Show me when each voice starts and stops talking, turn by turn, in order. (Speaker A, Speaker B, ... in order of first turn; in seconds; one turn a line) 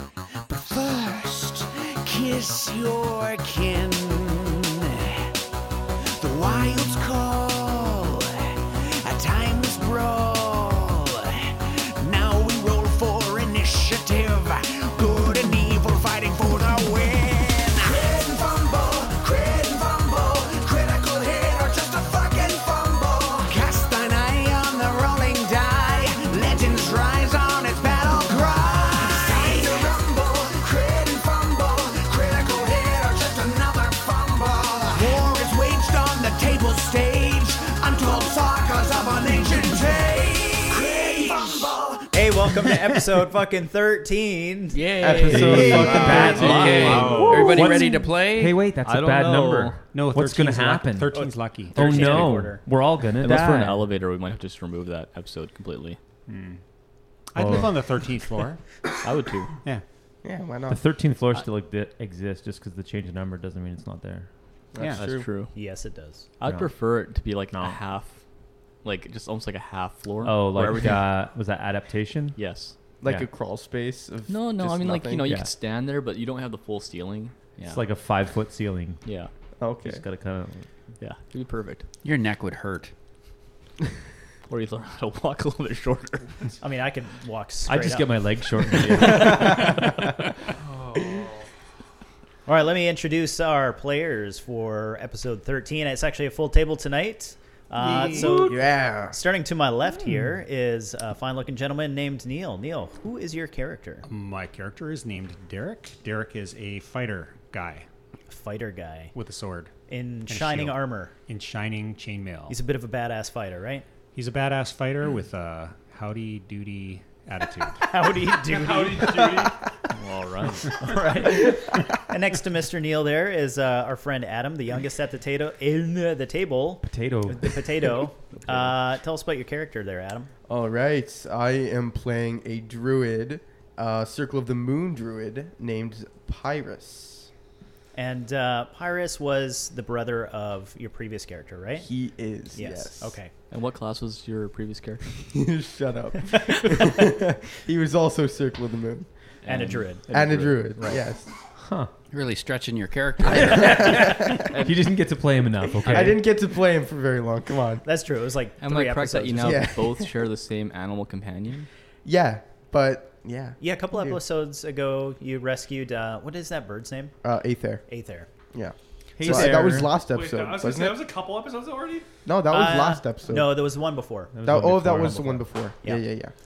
Speaker A: 0.5-5.3
Speaker A: 6.1-42.0
Speaker B: 42.1-44.8
Speaker C: 44.7-48.6
Speaker D: 45.0-47.2
Speaker E: 45.3-53.8
Speaker B: 45.4-47.2
Speaker F: 45.5-47.8
Speaker G: 46.5-46.9
Speaker G: 48.8-49.8
Speaker F: 49.9-52.0
Speaker B: 51.1-52.6
Speaker G: 53.2-56.0
Speaker F: 56.3-56.6
Speaker F: 57.3-58.6
Speaker E: 57.4-57.8
Speaker G: 59.0-59.5
Speaker D: 60.2-60.8
Speaker E: 60.7-64.3
Speaker D: 64.7-65.3
Speaker G: 65.0-65.5
Speaker B: 65.5-66.2
Speaker G: 66.4-68.2
Speaker E: 66.4-66.7
Speaker E: 67.5-67.8
Speaker G: 68.8-71.0
Speaker E: 70.2-72.4
Speaker G: 72.4-72.8
Speaker D: 73.0-75.3
Speaker G: 74.3-77.8
Speaker E: 77.7-79.0
Speaker G: 79.0-79.3
Speaker D: 79.6-80.0
Speaker E: 79.8-80.7
Speaker G: 81.0-81.9
Speaker C: 82.0-82.9
Speaker G: 84.5-86.5
Speaker B: 86.6-88.1
Speaker E: 87.7-89.9
Speaker G: 88.7-90.1
Speaker H: 90.6-91.5
Speaker B: 92.5-104.0
Speaker F: 97.8-98.3
Speaker H: 98.0-98.5
Speaker D: 98.0-99.2
Speaker H: 100.0-100.3
Speaker F: 104.0-107.9
Speaker B: 108.3-109.1
Speaker F: 109.1-109.7
Speaker B: 109.9-111.1
Speaker F: 110.3-112.6
Speaker B: 112.5-113.8
Speaker F: 114.1-117.9
Speaker B: 117.8-119.5
Speaker H: 118.4-119.7
Speaker G: 119.9-120.8
Speaker B: 120.7-130.3
Speaker E: 126.8-127.6
Speaker D: 130.5-137.3
Speaker B: 137.9-141.9
Speaker D: 141.8-143.2
Speaker B: 142.5-143.3
Speaker G: 143.5-145.3
Speaker D: 145.3-149.1
Speaker G: 149.4-151.0
Speaker B: 149.4-150.0
Speaker D: 150.1-151.3
Speaker E: 151.6-151.9
Speaker C: 152.1-153.9
Speaker E: 153.3-156.2
Speaker D: 153.3-154.4
Speaker D: 155.8-157.8
Speaker B: 157.8-159.7
Speaker G: 158.6-161.7
Speaker D: 159.4-160.2
Speaker D: 162.0-164.2
Speaker B: 163.6-167.1
Speaker D: 167.2-167.8
Speaker B: 167.9-168.3
Speaker D: 168.5-171.0
Speaker E: 169.2-169.9
Speaker H: 169.3-172.1
Speaker D: 172.2-173.5
Speaker B: 172.5-176.0
Speaker E: 174.3-175.4
Speaker D: 174.4-176.3